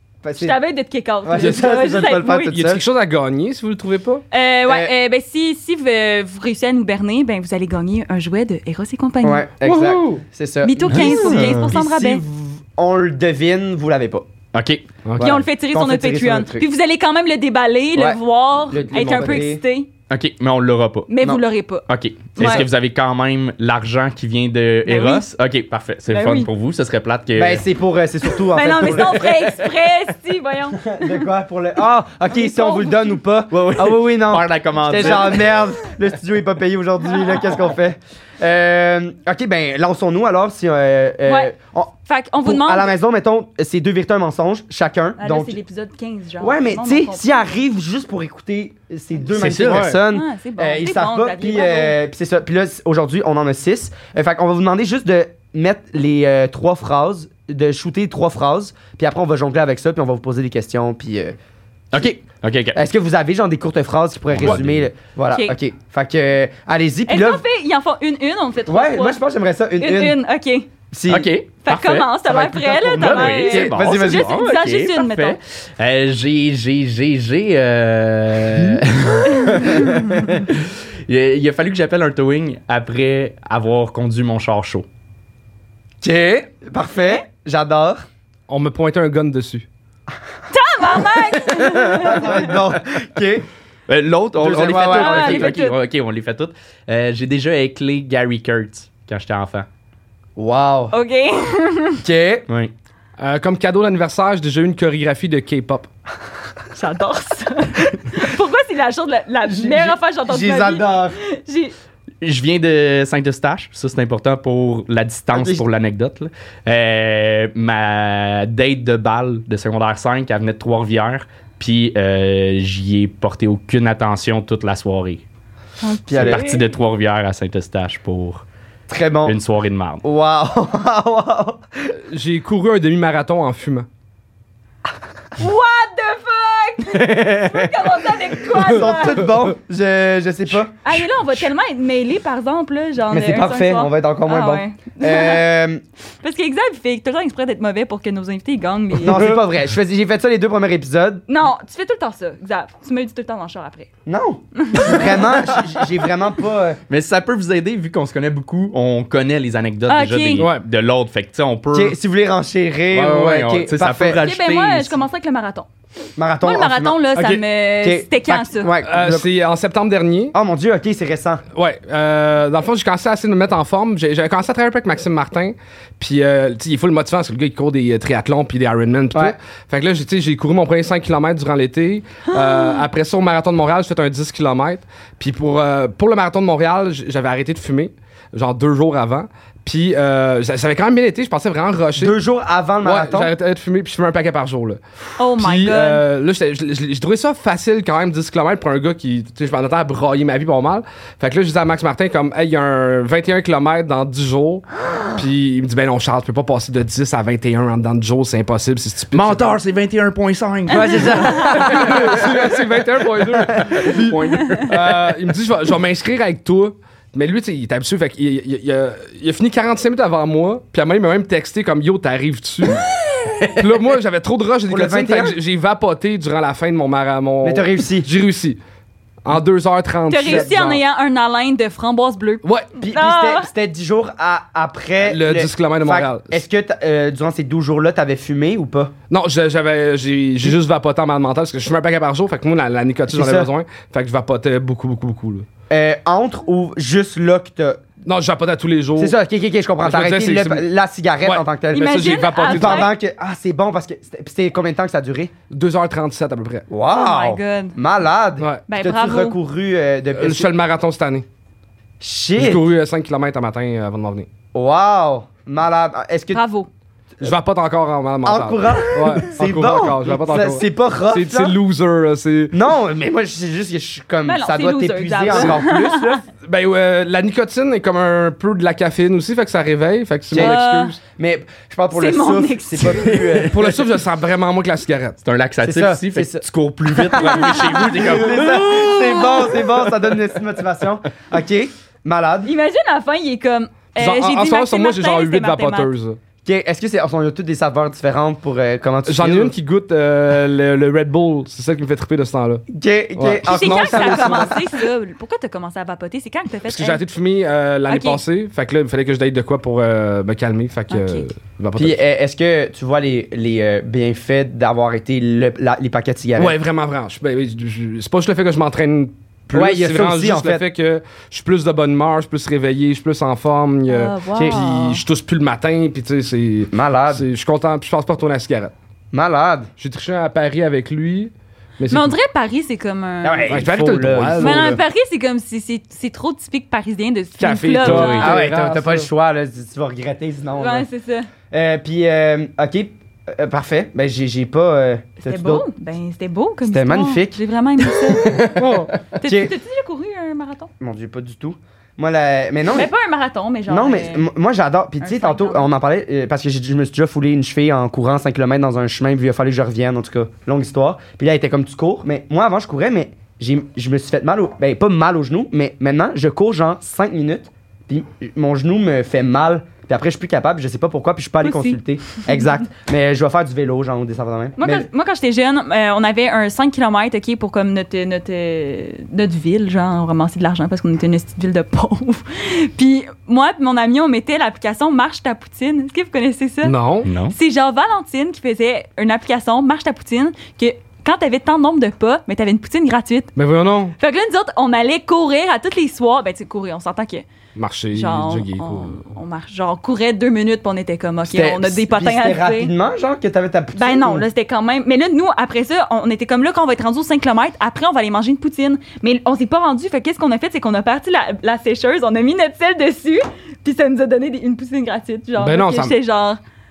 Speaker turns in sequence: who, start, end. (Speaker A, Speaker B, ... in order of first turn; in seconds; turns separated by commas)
Speaker A: 0.2-0.6, Speaker B: 0.3-2.5, Speaker A: 1.2-2.8, Speaker C: 1.3-1.7, Speaker C: 2.5-4.2, Speaker B: 4.3-9.5, Speaker A: 4.7-4.9, Speaker A: 9.2-14.3, Speaker C: 9.6-10.2, Speaker B: 10.6-12.2, Speaker D: 10.9-11.7, Speaker D: 14.5-14.9, Speaker C: 15.1-15.3, Speaker A: 15.2-16.7, Speaker B: 15.2-19.9, Speaker A: 17.9-19.6, Speaker D: 20.1-21.1, Speaker B: 21.1-21.9, Speaker D: 21.9-27.6, Speaker B: 22.4-22.7, Speaker A: 22.4-22.7, Speaker B: 24.9-25.3, Speaker B: 26.1-26.5, Speaker A: 27.4-29.6, Speaker B: 28.5-31.2, Speaker A: 30.8-45.6, Speaker B: 32.3-33.2, Speaker D: 33.5-35.6, Speaker B: 41.2-41.5, Speaker B: 42.1-42.9, Speaker B: 45.2-47.2, Speaker A: 46.4-61.4, Speaker D: 49.4-50.0, Speaker C: 49.4-50.0, Speaker B: 50.1-52.0, Speaker D: 61.9-62.8, Speaker A: 62.8-67.4, Speaker D: 64.3-64.9, Speaker B: 65.3-65.6, Speaker B: 67.1-69.2, Speaker A: 68.7-70.2, Speaker B: 69.8-70.7, Speaker A: 70.9-71.3, Speaker D: 71.1-84.9, Speaker B: 71.7-75.4, Speaker A: 72.3-74.3, Speaker B: 79.4-80.2, Speaker A: 86.0-88.1, Speaker C: 88.5-89.7, Speaker B: 90.5-92.5, Speaker A: 91.6-93.5, Speaker D: 93.9-99.7, Speaker A: 94.4-95.6, Speaker B: 94.8-95.8, Speaker A: 100.4-101.0, Speaker B: 100.9-102.0, Speaker A: 102.0-102.5, Speaker C: 103.2-105.9, Speaker B: 106.7-111.7, Speaker A: 109.5-111.2, Speaker D: 112.2-125.2, Speaker A: 115.3-115.7, Speaker B: 125.8-126.7, Speaker A: 126.1-126.4, Speaker D: 126.1-128.4, Speaker A: 128.9-129.4, Speaker D: 129.2-130.0, Speaker A: 130.0-131.9, Speaker C: 132.1-133.9, Speaker B: 135.4-139.3, Speaker D: 137.0-137.7, Speaker A: 138.5-141.0, Speaker B: 140.8-145.5, Speaker A: 143.1-145.8, Speaker B: 146.2-149.3, Speaker A: 149.0-151.2, Speaker B: 151.3-153.9, Speaker A: 154.1-156.8, Speaker B: 154.6-155.3, Speaker D: 156.9-162.0, Speaker B: 159.9-160.5, Speaker C: 160.4-160.6, Speaker A: 161.7-164.2, Speaker D: 162.9-165.0, Speaker B: 164.2-165.7, Speaker A: 166.2-169.3, Speaker B: 166.4-168.7, Speaker C: 168.8-170.3, Speaker A: 170.3-171.4, Speaker C: 171.6-192.2, Speaker A: 192.0-193.3, Speaker C: 192.8-194.8, Speaker B: 195.2-196.0, Speaker C: 195.3-209.6, Speaker D: 209.1-212.5, Speaker A: 210.7-212.2, Speaker C: 210.8-222.8, Speaker D: 213.5-215.0, Speaker D: 223.1-223.7, Speaker C: 223.6-228.6, Speaker A: 224.7-225.4, Speaker A: 227.4-228.1, Speaker C: 229.2-230.8, Speaker B: 230.1-233.5, Speaker A: 230.2-230.6, Speaker C: 232.4-232.7, Speaker A: 232.8-238.9, Speaker C: 235.0-236.4, Speaker C: 239.1-245.5, Speaker A: 243.1-243.5, Speaker A: 245.7-247.8, Speaker C: 248.1-249.2, Speaker A: 249.0-255.3, Speaker C: 249.8-250.6, Speaker C: 251.2-252.9, Speaker B: 251.7-252.9, Speaker C: 255.5-256.7, Speaker A: 256.7-260.5, Speaker B: 256.9-257.8, Speaker B: 258.7-259.4, Speaker C: 260.1-261.2, Speaker A: 262.0-262.6, Speaker C: 262.4-264.3, Speaker A: 264.5-266.4, Speaker B: 266.3-266.7, Speaker C: 267.2-272.6, Speaker A: 268.2-271.6, Speaker A: 272.5-276.2, Speaker B: 274.2-276.2, Speaker C: 276.4-281.0, Speaker A: 280.3-280.6, Speaker B: 280.4-280.9, Speaker A: 281.1-283.9, Speaker B: 281.9-283.4, Speaker C: 283.5-285.2, Speaker D: 285.2-288.9, Speaker A: 285.6-292.5, Speaker B: 288.5-289.6, Speaker B: 292.4-295.9, Speaker C: 294.0-296.2, Speaker A: 296.4-299.5, Speaker C: 299.1-304.5, Speaker A: 302.7-304.7, Speaker B: 303.4-307.0, Speaker C: 306.7-312.0, Speaker B: 307.9-308.2, Speaker B: 310.9-311.2, Speaker A: 311.8-316.5, Speaker C: 316.4-328.7, Speaker A: 319.5-320.6, Speaker B: 323.9-325.0, Speaker A: 326.7-327.2, Speaker A: 329.1-329.7, Speaker C: 329.8-332.1, Speaker B: 331.9-333.6, Speaker A: 333.2-334.8, Speaker C: 333.5-334.8, Speaker B: 334.4-338.4, Speaker C: 337.4-339.1, Speaker A: 337.8-340.9, Speaker B: 340.6-341.3, Speaker A: 341.5-345.7, Speaker B: 345.2-348.4, Speaker A: 346.6-347.4, Speaker D: 348.2-348.8, Speaker C: 348.5-348.9, Speaker B: 349.2-350.7, Speaker A: 349.2-349.5, Speaker A: 350.8-352.9, Speaker B: 352.7-354.3, Speaker A: 353.7-374.9, Speaker B: 355.0-355.7, Speaker B: 371.4-371.8, Speaker B: 374.6-393.3, Speaker C: 386.6-387.1, Speaker D: 387.0-387.4, Speaker C: 393.4-393.9, Speaker B: 394.0-397.2, Speaker C: 397.6-399.0, Speaker B: 397.9-402.7, Speaker A: 401.2-404.2, Speaker B: 403.8-416.4, Speaker C: 415.4-416.0